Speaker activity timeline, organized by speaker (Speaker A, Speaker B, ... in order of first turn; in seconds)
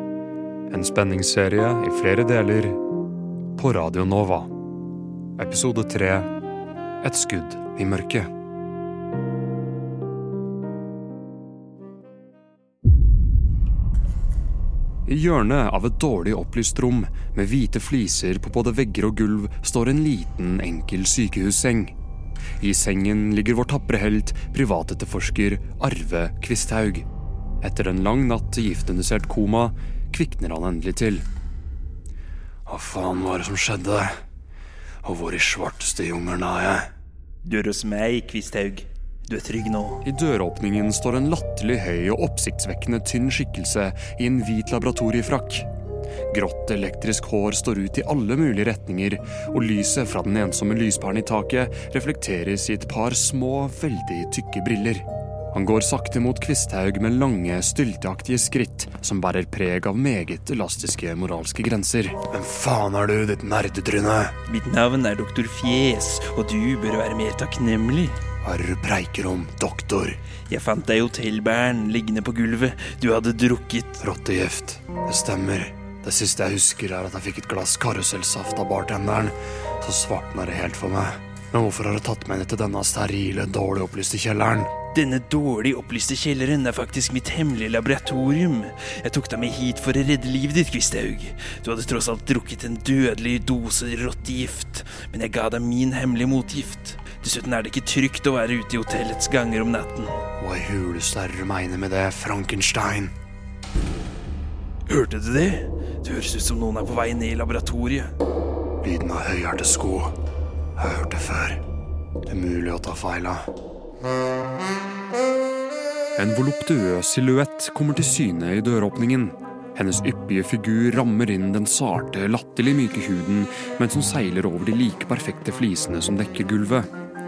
Speaker A: 0.7-2.8, 3.5-4.5, 5.4-6.3, 7.0-8.3, 15.1-21.9, 22.6-27.1, 27.6-31.2, 32.7-34.1, 35.0-36.9, 40.0-45.7, 46.3-64.3, 68.4-70.2, 74.0-84.7, 100.4-103.1, 108.8-110.1, 110.8-111.6, 112.3-113.4, 116.2-126.9
Speaker B: 37.4-40.0, 64.5-68.2, 70.5-74.0, 84.9-100.2, 104.9-108.1